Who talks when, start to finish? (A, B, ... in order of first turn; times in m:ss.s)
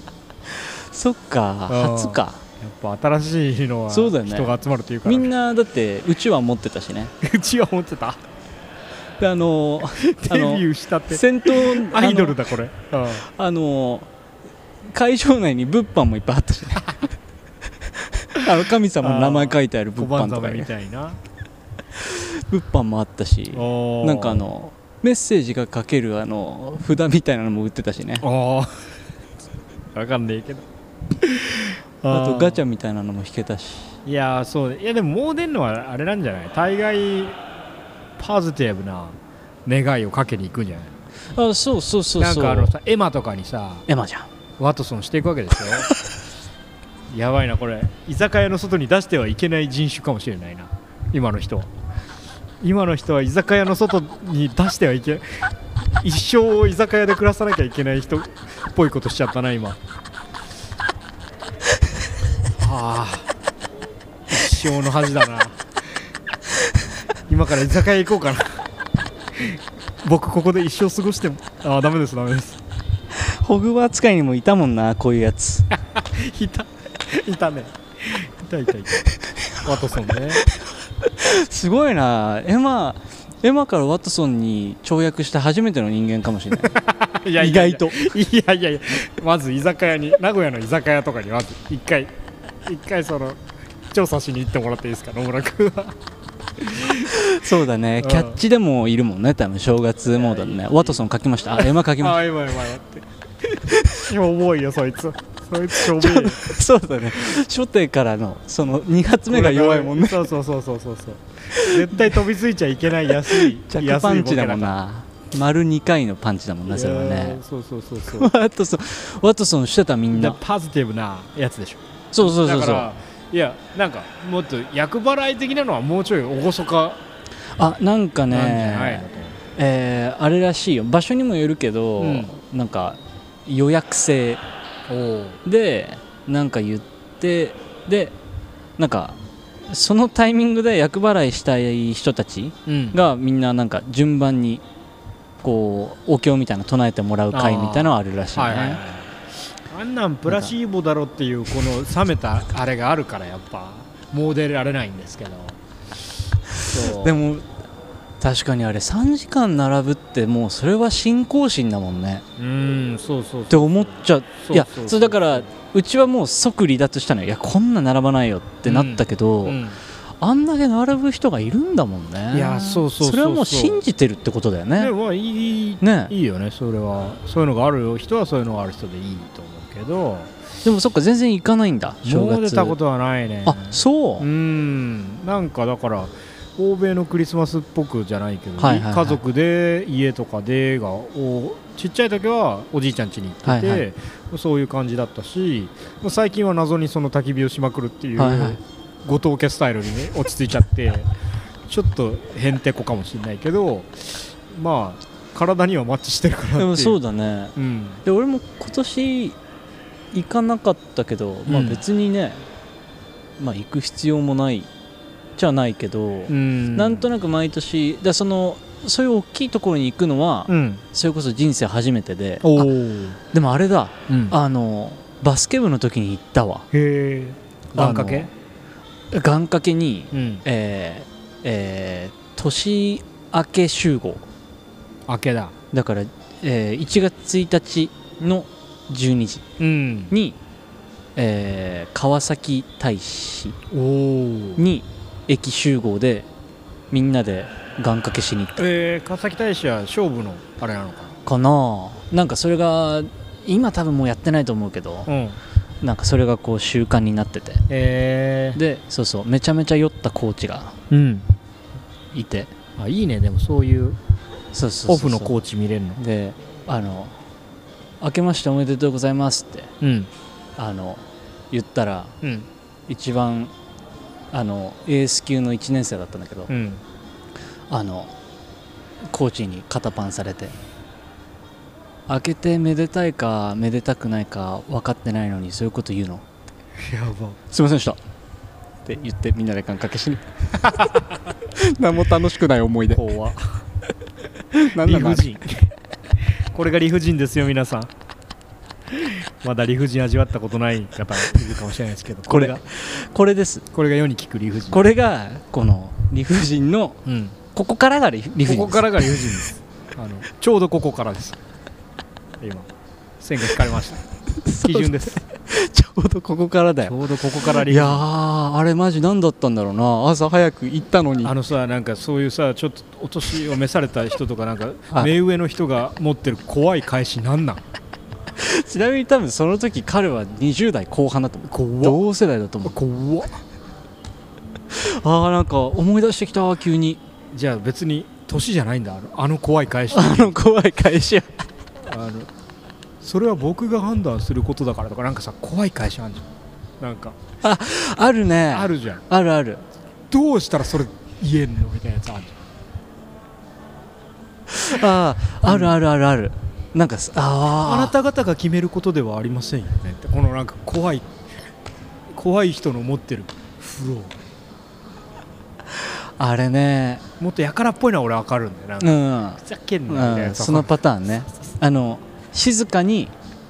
0:00.5-0:02.4 A
0:01.7-0:05.3 B
0:03.9-0:07.1 A
0:07.2-0:08.2 B
0:09.2-0:12.4 A
0:10.0-0:13.2 B
0:13.2-0:14.1 A
0:14.9-0:17.1 A
0:18.0-0:20.7 A
0:19.0-0:21.2 B
0:22.0-0:28.3 A
0:23.5-0:24.5 B
0:28.2-0:28.8 B
0:29.9-0:30.7 B
0:31.2-0:32.6 B
0:32.1-0:34.0 A
0:34.0-0:37.4 B
0:38.2-0:41.0 B
0:41.3-0:42.7 A
0:42.2-0:43.9 B
0:43.9-0:44.3 A
0:44.6-0:45.9 B
0:47.1-0:51.7 B
0:52.6-0:59.8 B
1:02.6-1:03.3 B
1:04.3-1:05.6 B
1:07.3-1:08.6 B
1:09.3-1:12.6 B
1:13.1-1:15.7 A
1:15.7-1:19.1 B
1:19.4-1:20.4 A
1:19.6-1:20.5 B
1:21.0-1:26.8 A
1:26.6-1:36.0 B
1:27.4-1:28.0 A
1:36.6-1:37.1 B
1:37.0-1:42.2 A
1:38.0-1:38.4 B
1:40.0-1:46.5 B
1:43.7-1:44.0 A
1:45.8-1:50.3 A
1:49.3-1:54.8 B
1:51.5-1:52.1 A
1:53.2-1:57.4 A
1:56.7-1:58.3 B
1:58.1-2:00.4 A
2:00.1-2:07.0 B
2:02.1-2:02.9 A
2:07.6-2:14.4 A
2:08.3-2:09.4 B
2:12.0-2:12.3 B
2:14.9-2:15.4 B
2:15.4-2:18.1 A
2:18.8-2:19.2 A
2:19.7-2:24.6 A
2:22.6-2:23.0 B
2:25.4-2:28.8 A
2:27.3-2:35.6 B
2:36.6-2:37.2 B
2:36.7-2:37.5 A
2:38.2-2:42.2 A
2:42.4-2:45.5 B
2:43.5-2:49.6 A
2:48.6-2:49.8 B
2:50.2-2:54.9 A
2:52.3-2:53.8 B
2:54.8-3:00.3 B
2:55.8-2:56.1 A
3:00.6-3:02.8 A
3:02.0-3:21.1 B
3:03.4-3:04.3 A
3:08.6-3:09.2 A
3:13.4-3:13.8 A
3:18.2-3:18.6 A
3:21.7-3:27.0 B
3:26.6-3:29.4 A
3:27.6-3:28.0 B
3:30.1-3:32.4 A
3:31.5-3:31.8 B
3:33.4-3:34.7 A
3:35.4-3:42.7 A
3:36.3-3:37.1 B
3:40.5-3:40.8 B
3:42.4-3:43.2 B
3:43.3-3:46.7 A
3:44.1-3:44.4 B
3:46.7-3:48.3 B
3:47.7-3:48.3 A
3:49.1-3:54.2 A
3:50.1-3:50.4 B
3:55.1-3:55.5 B
3:55.7-3:59.5 A
3:59.6-4:00.1 B
4:00.1-4:00.4 A
4:01.2-4:03.6 A
4:03.7-4:04.6 B
4:04.6-4:06.3 A
4:06.9-4:08.6 A
4:08.6-4:11.2 B
4:11.2-4:15.1 A
4:15.1-4:15.4 B
4:15.8-4:17.6 A
4:17.7-4:18.6 B
4:18.5-4:20.8 A
4:20.9-4:21.3 B
4:22.1-4:22.5 A
4:22.8-4:24.0 B
4:24.5-4:25.3 A
4:24.9-4:26.0 B
4:26.0-4:27.2 A
4:28.0-4:29.7 A
4:29.8-4:30.1 B
4:30.6-4:32.1 A
4:32.2-4:32.5 B
4:32.9-4:33.5 A
4:34.3-4:36.5 A
4:36.5-4:36.8 B
4:37.7-4:38.1 A
4:39.1-4:40.5 A
4:42.1-4:46.2 A
4:46.8-4:47.4 B
4:47.5-4:48.0 A
4:48.8-4:50.9 A
4:51.5-4:53.0 A
4:52.9-4:53.6 B
4:54.5-4:55.3 A
4:54.7-4:55.7 B
4:56.3-4:57.9 B
4:58.9-5:02.6 B
5:02.3-5:03.6 A
5:03.7-5:04.8 B
5:04.7-5:07.0 A
5:07.0-5:07.4 B
5:07.5-5:09.2 A
5:08.4-5:11.4 B
5:12.4-5:12.7 B
5:13.2-5:14.0 B
5:14.4-5:21.3 A
5:14.6-5:15.2 B
5:16.8-5:18.0 B
5:21.2-5:27.6 B
5:28.4-5:32.8 A
5:31.5-5:32.0 B
5:32.6-5:33.3 B
5:34.7-5:37.0 A
5:37.3-5:40.4 B
5:39.9-5:41.3 A
5:41.8-5:42.3 B
5:43.0-5:46.3 B
5:46.8-5:47.2 B
5:47.4-5:49.6 A
5:48.5-5:49.0 B
5:50.1-5:52.4 B
5:54.5-5:57.9 A
5:55.4-5:55.7 B
5:57.6-6:01.1 B
6:02.1-6:04.2 B
6:05.8-6:07.0 A
6:07.2-6:10.8 B
6:08.8-6:13.1 A